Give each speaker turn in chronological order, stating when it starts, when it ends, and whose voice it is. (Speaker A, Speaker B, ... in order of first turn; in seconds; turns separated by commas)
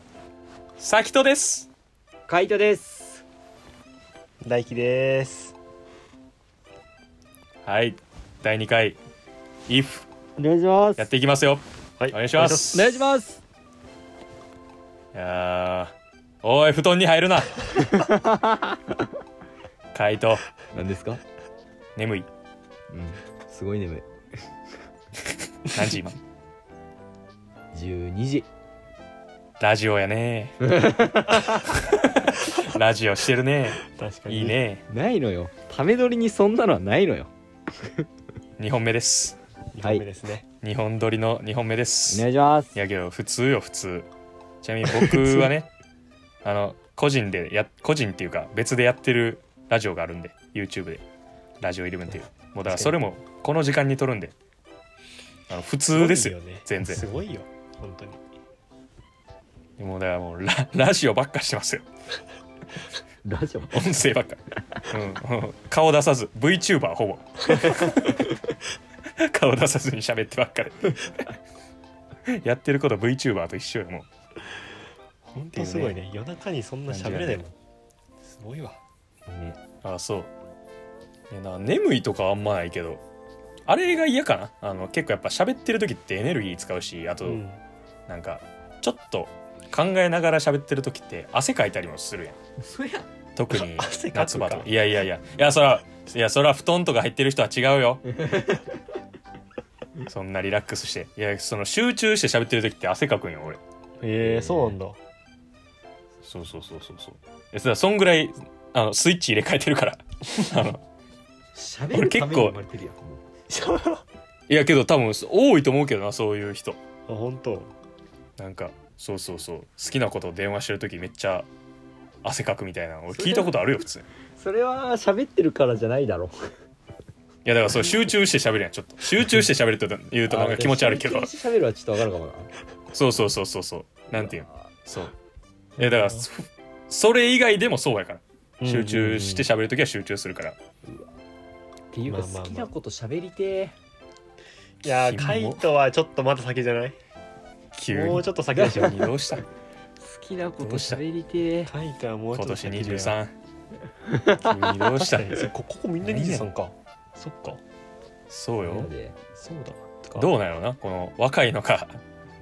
Speaker A: 0.8-1.7, Speaker B: 2.3-3.2, Speaker C: 4.4-5.5, Speaker A: 7.6-9.0, Speaker A: 9.7-10.1, Speaker B: 10.4-11.0, Speaker A: 11.0-12.9, Speaker C: 12.0-13.0, Speaker B: 12.7-13.4, Speaker A: 15.1-17.8, Speaker B: 17.9-18.8, Speaker A: 19.9-20.4, Speaker B: 20.7-21.2, Speaker A: 21.9-22.3, Speaker B: 22.9-24.1, Speaker A: 25.7-26.1, Speaker B: 27.7-28.5, Speaker A: 29.6-30.5, Speaker B: 30.6-31.6, Speaker A: 31.7-34.8, Speaker C: 33.9-34.6, Speaker B: 34.9-38.0, Speaker A: 38.6-39.4, Speaker C: 39.7-40.4, Speaker A: 40.6-44.1, Speaker B: 42.1-42.8, Speaker A: 44.6-45.7, Speaker A: 46.4-51.0, Speaker A: 51.6-54.3, Speaker C: 52.7-52.9, Speaker A: 55.5-57.0, Speaker C: 55.9-58.2, Speaker A: 59.8-61.8, Speaker B: 63.2-63.9, Speaker A: 63.7-68.3, Speaker A: 69.2-71.3, Speaker A: 72.3-74.1, Speaker C: 75.3-77.5, Speaker B: 75.5-75.9, Speaker B: 76.9-77.4, Speaker C: 78.2-78.8, Speaker B: 79.3-79.5, Speaker A: 79.8-80.3, Speaker A: 81.3-83.0, Speaker A: 83.7-87.4, Speaker C: 87.2-87.6, Speaker A: 88.1-92.4, Speaker B: 92.6-93.1, Speaker A: 93.3-98.2, Speaker C: 93.5-94.7, Speaker B: 98.2-98.6, Speaker A: 100.0-103.6, Speaker C: 104.0-105.0, Speaker B: 104.2-104.8, Speaker A: 106.2-110.8, Speaker B: 111.5-113.2, Speaker A: 111.9-112.6, Speaker C: 113.5-114.0, Speaker A: 114.5-116.8, Speaker C: 117.1-117.7, Speaker A: 118.4-121.5, Speaker A: 122.2-124.0, Speaker B: 123.1-123.6, Speaker B: 124.4-126.3, Speaker A: 127.4-131.3, Speaker B: 130.3-132.5, Speaker A: 132.9-135.1, Speaker B: 134.1-134.4, Speaker A: 135.8-140.6, Speaker C: 135.8-136.2, Speaker C: 138.6-139.5, Speaker B: 141.9-143.7, Speaker C: 142.1-142.7, Speaker C: 144.8-146.9, Speaker A: 144.8-145.6, Speaker A: 147.7-149.4, Speaker C: 147.9-149.0, Speaker B: 148.6-148.9, Speaker B: 150.0-151.7, Speaker A: 150.6-151.0, Speaker C: 151.7-153.2, Speaker A: 152.3-153.3, Speaker B: 154.0-154.7, Speaker A: 154.4-155.5, Speaker C: 154.9-157.6, Speaker A: 156.0-156.5, Speaker A: 158.3-158.9, Speaker B: 158.6-159.2, Speaker C: 159.4-160.3, Speaker A: 160.2-162.0